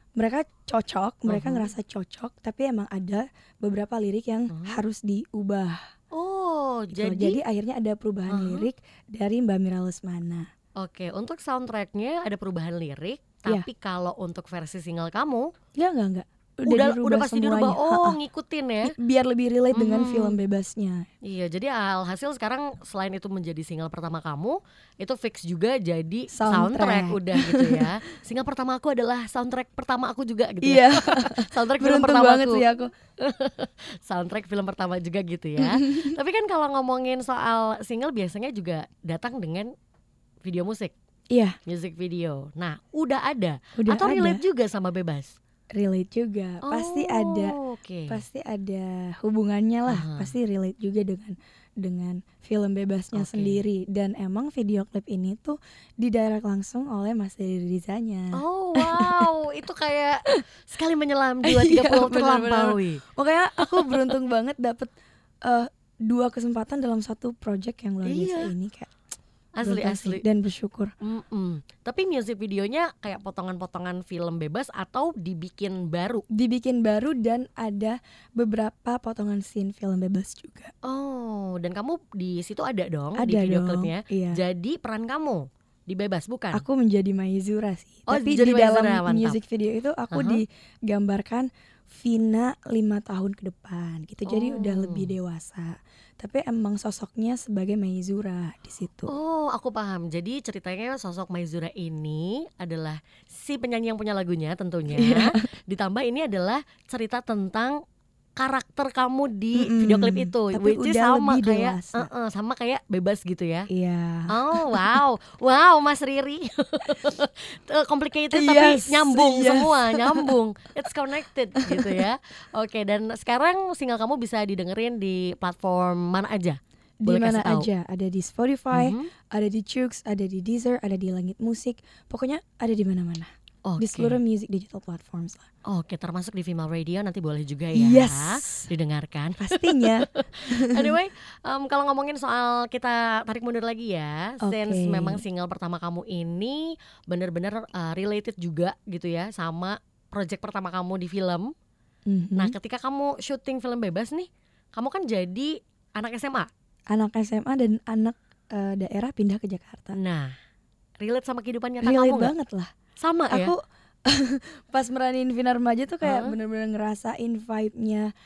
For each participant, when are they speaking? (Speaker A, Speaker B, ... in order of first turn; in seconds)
Speaker A: 0.2-5.9, 6.9-10.5, 15.8-18.2, 18.8-21.1, 26.3-27.9, 30.6-32.9, 35.6-36.1, 41.3-41.6, 43.8-44.4, 45.7-47.6, 48.1-59.3, 61.4-64.9, 65.4-68.9, 69.6-70.9, 76.3-80.7, 83.2-84.4, 86.5-99.1, 104.9-105.4, 109.5-112.1, 113.7-115.0, 118.3-120.3, 121.6-122.0, 127.0-135.5, 137.7-138.7, 139.4-140.9, 144.4-145.2, 152.1-152.5, 156.9-160.0, 161.8-162.7, 163.3-168.1
Speaker B: 1.3-1.7, 4.5-4.8, 6.1-7.4, 8.3-8.7, 10.8-15.5, 16.6-18.9, 19.7-20.4, 21.2-39.7, 40.4-40.9, 41.6-45.4, 46.6-48.2, 49.9-50.3, 53.1-53.6, 58.3-63.0, 63.6-64.1, 68.0-68.5, 69.5-70.2, 71.0-76.2, 80.8-86.6, 88.1-89.4, 90.1-90.4, 94.2-95.1, 99.1-107.8, 108.4-113.7, 114.3-127.7, 128.7-129.1, 133.6-134.2, 135.6-151.5, 152.3-156.5, 159.9-160.3, 161.0-162.3, 163.0-163.5, 166.0-166.3